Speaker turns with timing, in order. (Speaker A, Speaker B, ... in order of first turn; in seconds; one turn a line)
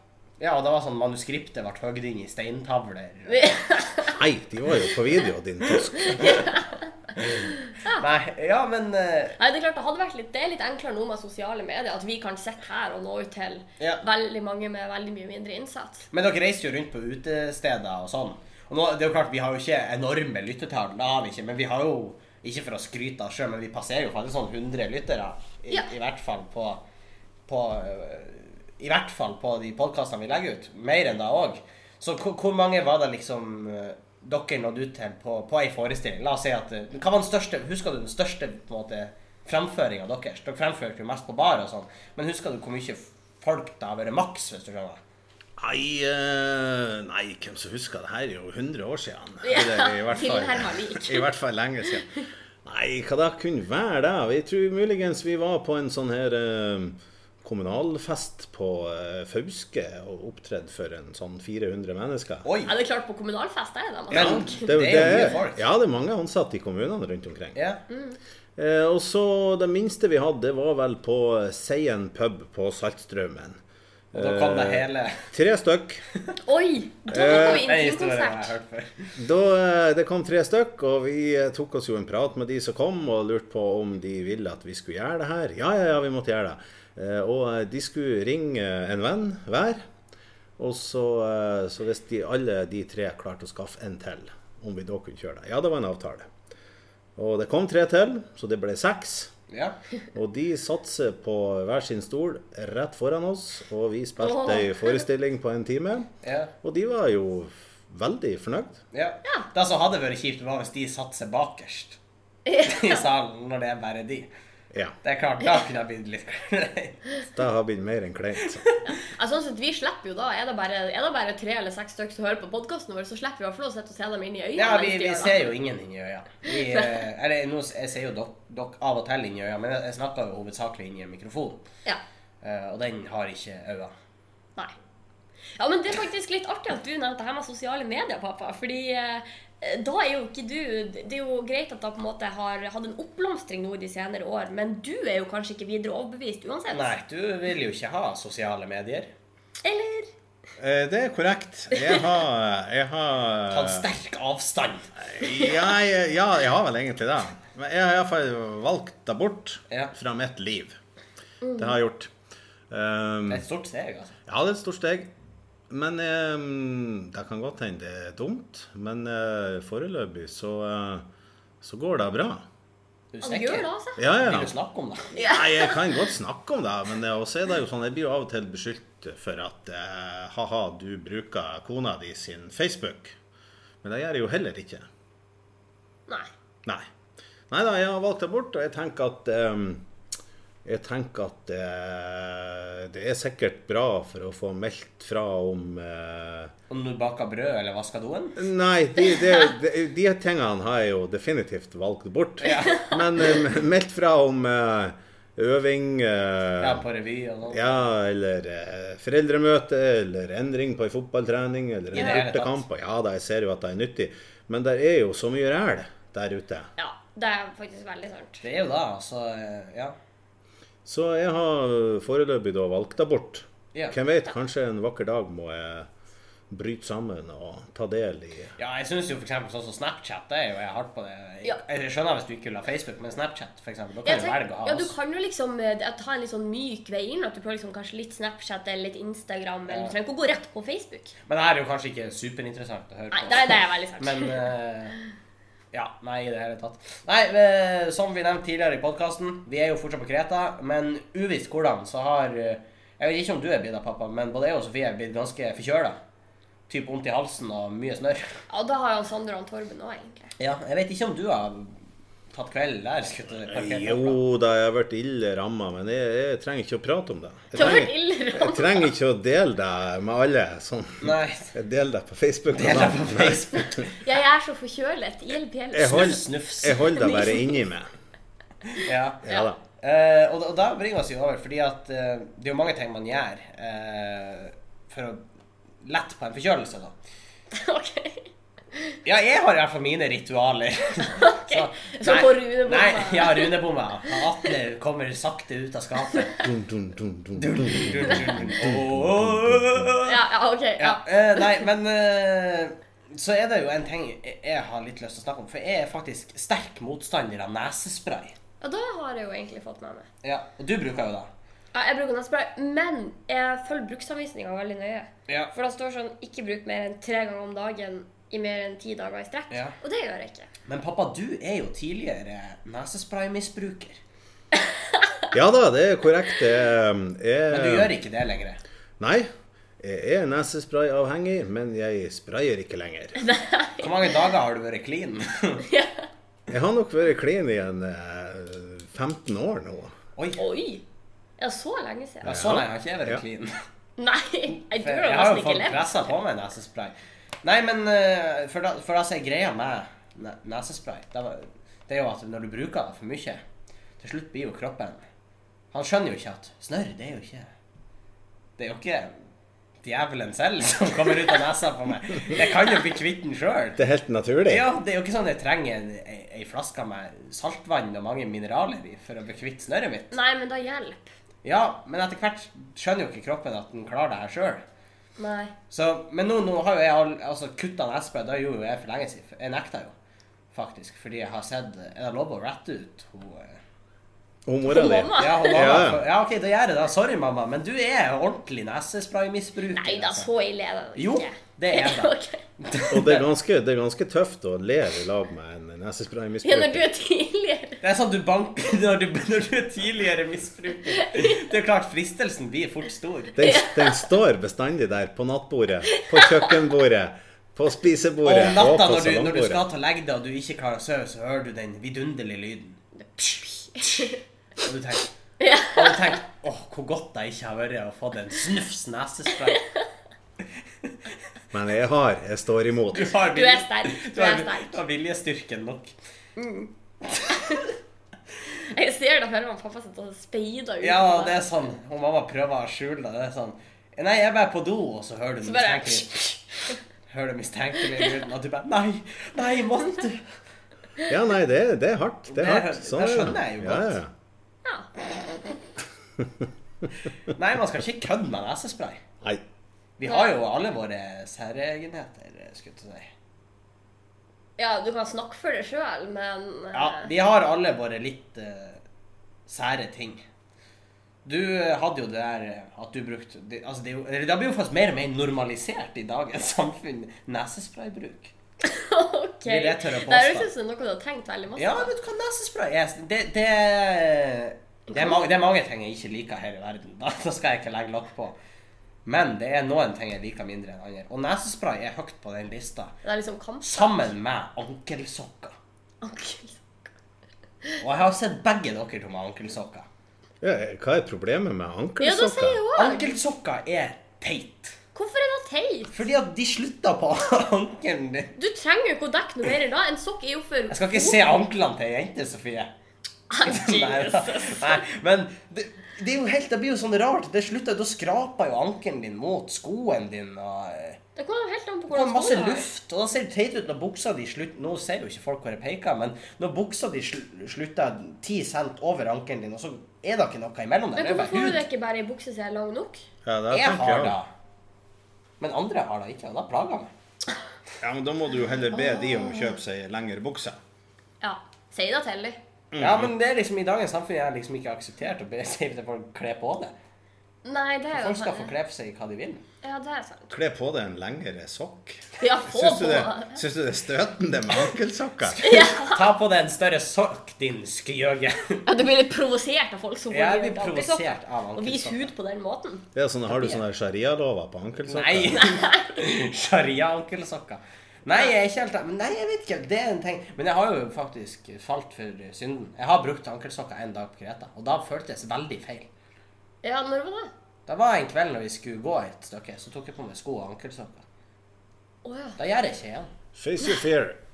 Speaker A: 0.4-3.6
Speaker B: 3.3-4.2
Speaker C: 4.1-6.4
Speaker B: 5.9-8.0
Speaker A: 7.9-9.4
Speaker B: 9.4-16.1
Speaker A: 16.1-26.8
Speaker A: 27.5-45.0
Speaker C: 45.6-52.1
Speaker B: 49.4-51.3
Speaker C: 52.6-62.5
Speaker A: 62.5-62.7
Speaker B: 62.7-65.1
Speaker C: 64.1-67.6
Speaker A: 64.1-65.7
Speaker A: 67.5-67.8
Speaker B: 67.9-68.2
Speaker C: 68.6-73.6
Speaker C: 74.1-76.0
Speaker A: 74.1-75.3
Speaker B: 76.5-78.5
Speaker A: 77.1-79.2
Speaker C: 77.1-77.6
Speaker C: 79.2-89.8
Speaker C: 90.6-96.3
Speaker C: 97.2-99.3
Speaker A: 99.5-99.8
Speaker C: 100.1-106.1
Speaker B: 104.2-105.0
Speaker A: 106.2-106.5
Speaker C: 106.6-108.8
Speaker A: 108.9-112.0
Speaker B: 112.5-113.0
Speaker A: 112.6-114.3
Speaker A: 115.0-117.0
Speaker C: 117.3-118.7
Speaker B: 118.9-125.5
Speaker A: 124.6-131.6
Speaker B: 126.5-127.0
Speaker A: 132.4-133.9
Speaker B: 135.6-146.9
Speaker A: 146.7-149.1
Speaker B: 149.6-150.1
Speaker C: 150.6-153.9
Speaker B: 151.7-152.0
Speaker A: 153.5-154.9
Speaker C: 155.0-160.8
Speaker B: 161.4-161.8
Speaker C: 161.6-162.1
Speaker C: 162.7-163.4
Speaker A: 163.3-164.2
Speaker C: 164.3-165.1
Speaker C: 165.7-171.1
Speaker C: 171.6-172.4
Speaker A: 173.1-175.2
Speaker B: 173.2-174.0
Speaker C: 174.0-174.5
Speaker B: 175.1-175.8
Speaker C: 175.2-183.2
Speaker C: 183.8-184.9
Speaker C: 187.5-189.9
Speaker C: 190.7-196.5
Speaker A: 196.7-198.4
Speaker C: 198.4-206.8
Speaker A: 202.4-202.9
Speaker B: 202.6-203.0
Speaker A: 206.6-207.9
Speaker C: 207.5-216.7
Speaker A: 211.9-212.6
Speaker B: 216.8-218.4
Speaker A: 218.4-219.9
Speaker C: 220.8-225.9
Speaker C: 226.5-228.5
Speaker A: 228.6-234.9
Speaker B: 234.1-241.1
Speaker A: 239.7-239.9
Speaker A: 241.3-245.0
Speaker B: 243.1-244.5
Speaker A: 245.7-256.0
Speaker A: 256.7-258.4
Speaker B: 258.5-260.3
Speaker A: 260.4-261.8
Speaker A: 262.3-264.2
Speaker C: 263.4-273.8
Speaker B: 267.5-268.9
Speaker A: 271.0-271.5
Speaker A: 272.5-274.0
Speaker B: 273.9-277.6
Speaker C: 275.7-277.9
Speaker A: 275.9-276.8
Speaker A: 278.7-279.2
Speaker C: 279.2-279.6
Speaker A: 279.8-285.2
Speaker A: 285.8-286.9
Speaker B: 287.5-289.0
Speaker A: 289.1-296.4
Speaker B: 291.1-294.5
Speaker B: 296.1-296.5
Speaker C: 296.4-299.9
Speaker A: 297.4-300.2
Speaker B: 300.1-301.6
Speaker A: 300.8-308.4
Speaker B: 308.6-310.1
Speaker A: 310.2-311.3
Speaker B: 311.7-320.5
Speaker A: 319.5-319.8
Speaker A: 320.7-324.0
Speaker B: 324.5-325.3
Speaker C: 325.3-327.9
Speaker A: 327.5-328.6
Speaker C: 329.0-333.2
Speaker B: 333.2-334.3
Speaker A: 333.8-335.7
Speaker B: 335.6-336.1
Speaker C: 336.5-339.9
Speaker B: 340.4-340.8
Speaker B: 341.4-342.5
Speaker A: 342.2-343.6
Speaker C: 342.2-343.2
Speaker B: 344.0-346.1
Speaker A: 344.5-353.4
Speaker A: 354.0-355.0
Speaker A: 355.7-357.5
Speaker A: 358.6-359.1
Speaker A: 359.8-363.8
Speaker C: 363.8-364.7
Speaker A: 364.5-370.1
Speaker B: 370.1-371.1
Speaker A: 371.4-374.6
Speaker B: 375.2-375.5
Speaker A: 375.7-379.9
Speaker A: 380.5-383.6
Speaker C: 384.5-386.1
Speaker B: 384.7-385.7
Speaker A: 385.2-390.3
Speaker B: 389.7-392.4
Speaker A: 391.0-393.3
Speaker C: 392.9-396.9
Speaker B: 396.4-397.8
Speaker A: 397.8-403.4
Speaker B: 401.0-401.5
Speaker C: 403.4-409.6
Speaker B: 403.4-404.1
Speaker B: 405.9-406.6
Speaker A: 408.2-412.8
Speaker B: 413.0-414.2
Speaker A: 413.9-415.1
Speaker B: 415.4-416.2
Speaker A: 415.7-419.6
Speaker B: 419.5-419.9
Speaker C: 421.5-423.1
Speaker A: 422.9-425.9
Speaker B: 423.2-424.8
Speaker B: 426.4-427.7
Speaker A: 427.1-427.7
Speaker B: 428.6-431.4
Speaker A: 430.8-436.2
Speaker B: 435.4-436.8
Speaker A: 437.1-440.3
Speaker C: 441.1-444.1
Speaker A: 442.3-444.0
Speaker C: 446.2-446.4
Speaker A: 447.3-449.0
Speaker A: 450.0-453.1
Speaker B: 450.1-450.3
Speaker B: 454.6-457.1
Speaker A: 456.7-458.8
Speaker A: 459.5-460.2
Speaker A: 461.2-468.3
Speaker B: 468.6-471.9
Speaker A: 469.5-470.5
Speaker A: 471.6-478.4
Speaker B: 474.9-475.2
Speaker A: 479.1-482.9
Speaker B: 483.0-484.1
Speaker A: 483.6-485.6
Speaker B: 486.0-486.6
Speaker A: 487.8-489.9
Speaker C: 490.4-492.6
Speaker B: 492.0-493.1
Speaker A: 492.8-494.8
Speaker B: 494.9-495.9
Speaker A: 495.9-498.3
Speaker B: 498.4-501.4
Speaker A: 500.7-502.7
Speaker B: 503.3-504.8
Speaker A: 503.4-511.0
Speaker B: 511.2-512.7
Speaker A: 511.9-521.6
Speaker B: 521.0-523.0
Speaker C: 523.2-524.2
Speaker A: 523.5-524.3
Speaker A: 525.4-526.9
Speaker C: 527.8-530.6
Speaker B: 528.7-529.6
Speaker B: 531.2-532.4
Speaker C: 532.7-533.1
Speaker A: 532.8-536.7
Speaker B: 537.4-538.5
Speaker A: 537.9-539.4
Speaker B: 539.6-540.3
Speaker C: 540.3-545.4
Speaker B: 542.2-543.4
Speaker A: 545.3-548.7
Speaker B: 545.4-546.1
Speaker B: 548.7-553.6
Speaker A: 550.1-552.1
Speaker C: 553.0-555.4
Speaker A: 554.9-565.9
Speaker B: 555.4-556.0
Speaker B: 566.6-567.3
Speaker A: 567.7-571.0
Speaker B: 572.0-572.4
Speaker A: 572.4-573.1
Speaker C: 573.4-574.2